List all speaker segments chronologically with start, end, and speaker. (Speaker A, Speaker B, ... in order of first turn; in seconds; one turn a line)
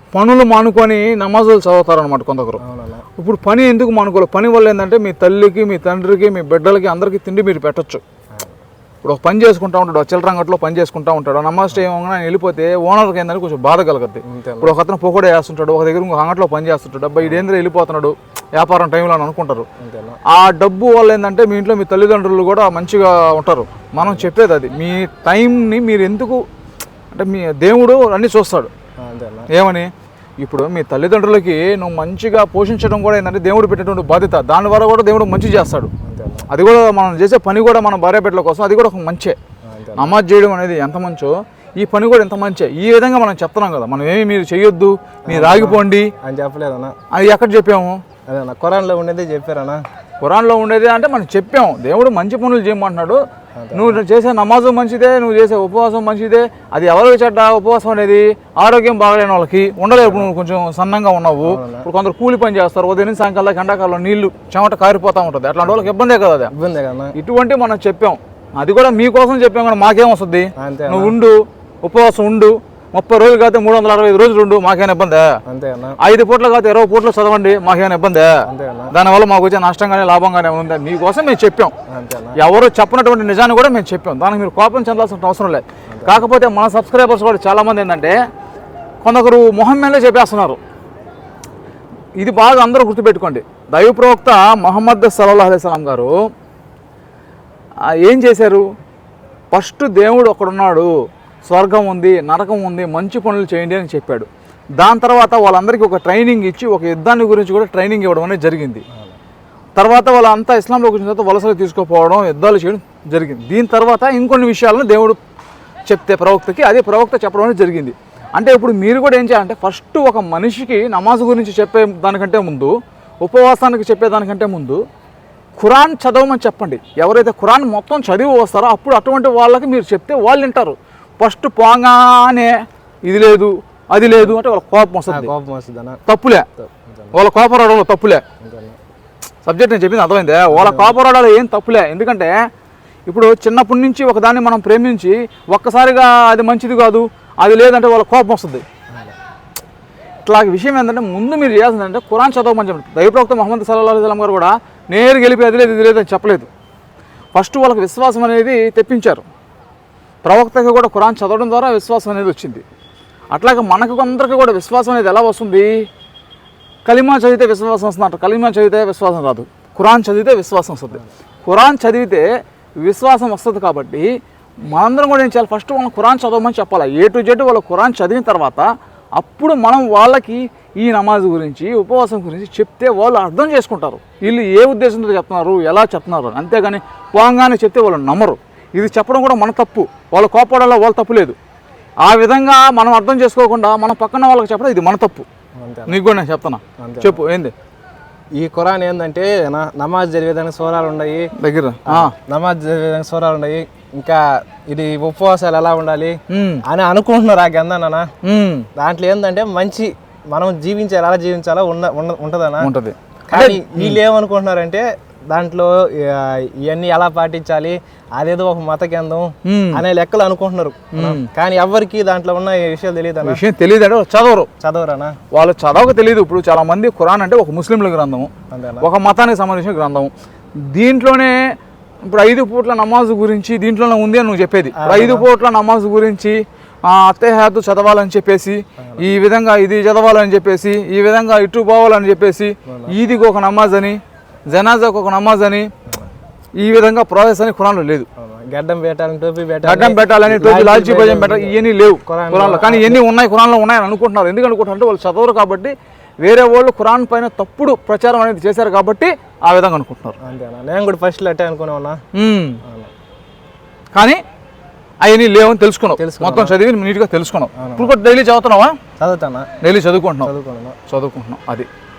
Speaker A: 0.1-2.6
Speaker B: 2.6-3.1
Speaker A: 3.2-8.0
Speaker A: 9.0-19.7
Speaker B: 14.3-14.7
Speaker B: 19.8-20.2
Speaker A: 20.3-26.4
Speaker B: 24.0-24.3
Speaker A: 27.1-28.7
Speaker B: 29.0-29.5
Speaker A: 29.5-35.9
Speaker B: 36.0-36.5
Speaker A: 36.5-39.4
Speaker B: 39.6-40.1
Speaker A: 40.0-46.1
Speaker B: 45.3-47.0
Speaker A: 47.1-48.0
Speaker B: 48.3-49.8
Speaker A: 50.2-53.2
Speaker B: 53.6-54.0
Speaker A: 53.7-66.5
Speaker B: 59.9-60.3
Speaker B: 61.4-61.9
Speaker B: 65.6-65.9
Speaker B: 66.5-67.2
Speaker A: 67.2-75.4
Speaker B: 70.6-71.2
Speaker B: 75.5-76.0
Speaker A: 76.0-81.7
Speaker B: 78.4-78.9
Speaker B: 81.9-82.4
Speaker A: 82.4-88.2
Speaker B: 85.9-86.2
Speaker A: 89.0-90.6
Speaker A: 92.2-96.1
Speaker A: 97.9-98.7
Speaker A: 99.5-100.9
Speaker A: 101.5-108.8
Speaker B: 108.9-109.2
Speaker A: 109.8-115.2
Speaker A: 115.9-124.8
Speaker A: 125.6-135.3
Speaker B: 134.1-134.4
Speaker B: 135.1-136.0
Speaker A: 136.1-136.5
Speaker B: 136.6-137.2
Speaker A: 137.1-138.2
Speaker B: 138.4-138.8
Speaker A: 139.4-142.4
Speaker B: 140.5-141.0
Speaker A: 143.1-148.6
Speaker A: 150.3-156.5
Speaker A: 157.3-159.3
Speaker A: 160.2-162.6
Speaker A: 163.3-165.8
Speaker A: 166.9-172.3
Speaker A: 172.8-174.1
Speaker A: 174.7-191.4
Speaker A: 192.0-195.3
Speaker B: 195.6-196.0
Speaker A: 195.9-197.5
Speaker B: 196.8-197.2
Speaker B: 198.4-201.3
Speaker A: 201.4-202.1
Speaker B: 201.9-208.1
Speaker A: 206.3-206.6
Speaker A: 208.2-208.7
Speaker B: 208.8-212.7
Speaker A: 212.6-214.0
Speaker B: 213.3-223.4
Speaker A: 219.4-219.8
Speaker A: 220.9-221.3
Speaker A: 223.2-224.5
Speaker B: 224.6-225.2
Speaker A: 225.3-231.4
Speaker B: 228.5-228.9
Speaker A: 232.0-245.7
Speaker B: 234.8-235.3
Speaker B: 242.7-242.9
Speaker A: 246.6-248.1
Speaker B: 248.2-253.0
Speaker A: 249.6-260.1
Speaker B: 260.2-262.0
Speaker A: 262.1-262.6
Speaker B: 262.6-262.9
Speaker A: 263.9-264.2
Speaker A: 265.0-268.8
Speaker B: 266.0-266.6
Speaker B: 267.6-267.9
Speaker B: 269.0-269.5
Speaker A: 269.6-270.3
Speaker B: 270.2-270.8
Speaker A: 270.9-271.7